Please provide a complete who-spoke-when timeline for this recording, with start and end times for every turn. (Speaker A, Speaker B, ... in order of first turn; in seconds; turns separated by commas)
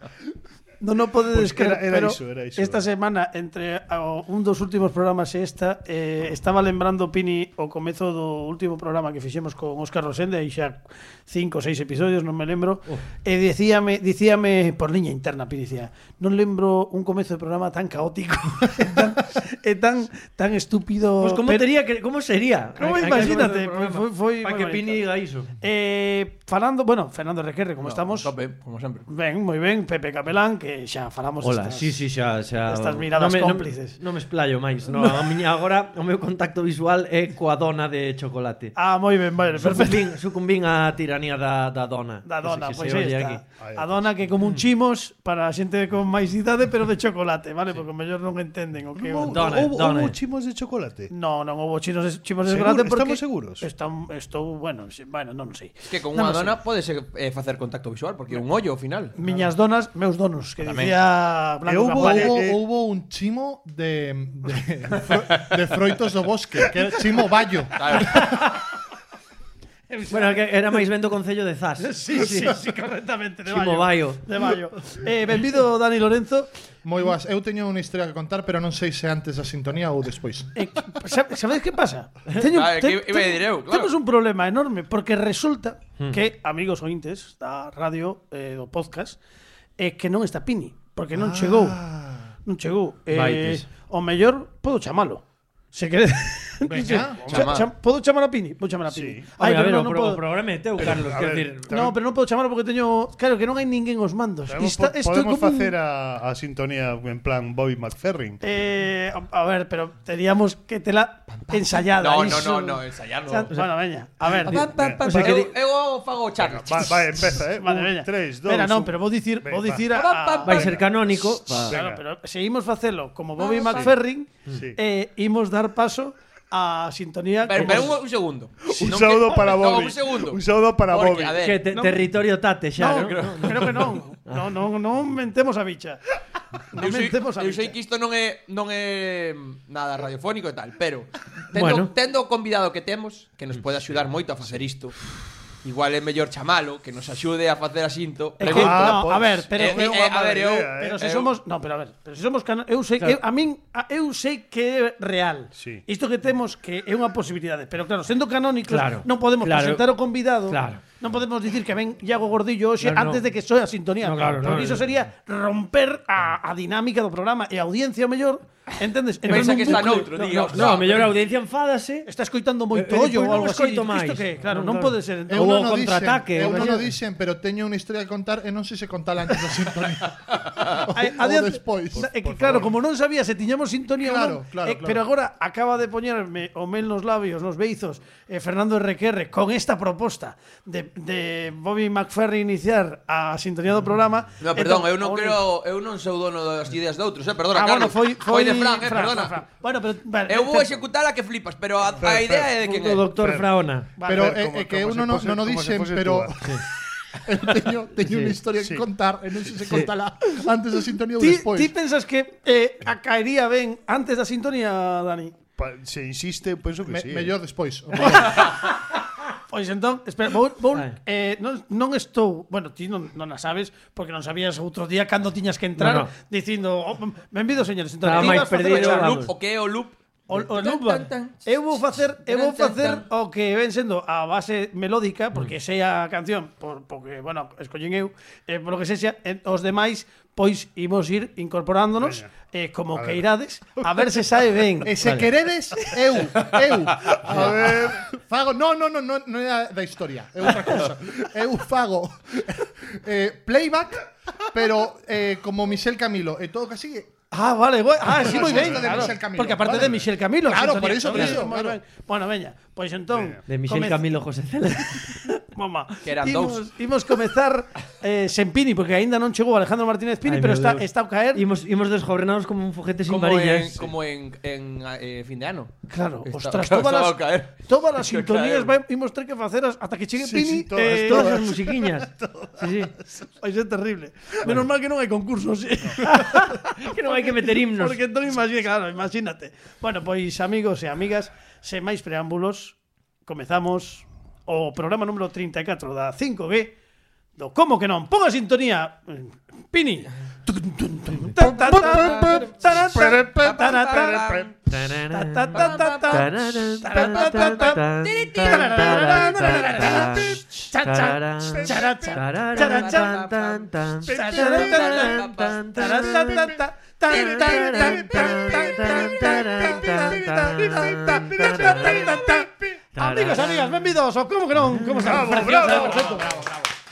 Speaker A: 0.8-21.6, Speaker B: 1.3-2.8, Speaker C: 21.2-25.5, Speaker A: 22.8-25.1, Speaker A: 25.6-28.3, Speaker D: 27.8-29.1, Speaker A: 29.1-32.0, Speaker C: 31.4-38.7, Speaker A: 32.7-34.0, Speaker A: 34.9-35.2, Speaker A: 38.7-40.1, Speaker C: 39.6-43.4, Speaker A: 42.2-49.5, Speaker B: 43.6-44.1, Speaker B: 48.9-51.1, Speaker C: 49.2-50.1, Speaker A: 51.1-56.5, Speaker B: 52.4-53.7, Speaker D: 55.8-59.1, Speaker A: 59.1-62.4, Speaker D: 60.6-61.0, Speaker B: 61.6-62.6, Speaker E: 61.9-68.1, Speaker D: 67.8-68.3, Speaker A: 69.9-70.5, Speaker C: 70.1-72.5, Speaker A: 71.8-76.5, Speaker C: 73.5-74.2, Speaker E: 76.8-80.5, Speaker A: 80.5-89.2, Speaker D: 82.4-83.9, Speaker A: 89.8-91.8, Speaker E: 91.1-92.3, Speaker A: 92.4-100.2, Speaker C: 93.1-93.6, Speaker E: 96.7-97.2, Speaker B: 96.8-97.6, Speaker D: 97.3-97.7, Speaker B: 98.9-99.2, Speaker C: 99.4-101.7, Speaker B: 100.8-102.0, Speaker A: 101.7-105.7, Speaker B: 104.5-108.4, Speaker A: 108.4-114.7, Speaker D: 111.5-113.5, Speaker B: 114.2-115.0, Speaker D: 114.4-117.2, Speaker C: 115.0-115.5, Speaker B: 116.4-119.9, Speaker A: 117.6-120.8, Speaker D: 119.9-120.7, Speaker C: 120.4-121.8, Speaker B: 120.5-122.0, Speaker A: 121.7-128.0, Speaker D: 123.4-123.9, Speaker B: 123.6-124.0, Speaker B: 124.5-124.8, Speaker D: 127.4-131.6, Speaker B: 127.6-128.0, Speaker B: 128.6-131.4, Speaker C: 131.4-134.5, Speaker A: 131.7-132.0, Speaker A: 132.8-136.0, Speaker D: 132.9-133.8, Speaker A: 136.7-137.7, Speaker D: 136.8-144.9, Speaker C: 141.5-141.9, Speaker D: 145.6-151.3, Speaker A: 148.4-149.9, Speaker B: 148.4-151.1, Speaker A: 150.8-171.0, Speaker B: 155.5-155.8, Speaker C: 158.7-159.8, Speaker C: 160.5-160.8, Speaker C: 162.8-163.2, Speaker C: 164.0-164.8, Speaker C: 169.2-172.1, Speaker D: 169.3-171.1, Speaker A: 172.1-176.8, Speaker C: 172.7-176.9, Speaker E: 175.3-182.1, Speaker A: 180.9-195.4, Speaker B: 181.9-182.7, Speaker E: 184.0-185.0, Speaker D: 194.4-199.4, Speaker A: 197.5-200.9, Speaker D: 200.3-203.1, Speaker B: 202.0-202.5, Speaker C: 202.6-203.9, Speaker B: 203.1-203.5, Speaker A: 204.0-204.3, Speaker E: 204.1-211.7, Speaker B: 204.1-206.4, Speaker C: 208.0-208.4, Speaker B: 208.6-208.8, Speaker C: 209.6-209.9, Speaker A: 211.2-215.4, Speaker B: 215.6-217.3, Speaker E: 216.8-218.4, Speaker A: 218.0-218.7, Speaker A: 219.5-229.3, Speaker C: 225.8-226.1, Speaker C: 228.0-229.3, Speaker D: 228.1-233.0, Speaker A: 230.3-244.9, Speaker B: 242.0-242.3, Speaker B: 242.9-243.2, Speaker E: 244.8-257.1, Speaker C: 245.0-245.3, Speaker B: 247.1-248.1, Speaker A: 257.3-264.0, Speaker E: 258.1-261.8, Speaker B: 258.2-260.0, Speaker B: 261.1-261.4, Speaker B: 263.1-263.4, Speaker C: 263.5-265.1, Speaker A: 265.1-271.4, Speaker D: 266.0-266.6, Speaker C: 270.2-273.7, Speaker D: 273.1-275.7, Speaker A: 275.9-281.4, Speaker D: 276.2-278.8, Speaker B: 280.2-282.8, Speaker C: 280.8-282.9, Speaker A: 283.3-292.7, Speaker C: 286.1-288.0, Speaker A: 293.2-296.7, Speaker A: 297.4-304.3, Speaker B: 301.4-304.5, Speaker D: 301.8-302.4, Speaker D: 303.3-304.5, Speaker C: 304.7-316.5, Speaker A: 305.1-313.2, Speaker D: 305.5-306.2, Speaker D: 306.9-309.1, Speaker B: 311.5-312.2, Speaker D: 312.6-315.8, Speaker B: 314.1-315.1, Speaker A: 314.1-326.4, Speaker B: 316.2-316.5, Speaker B: 317.1-322.7, Speaker C: 317.1-322.2, Speaker C: 322.9-323.9, Speaker C: 324.7-325.9, Speaker B: 325.0-326.4, Speaker D: 326.3-326.5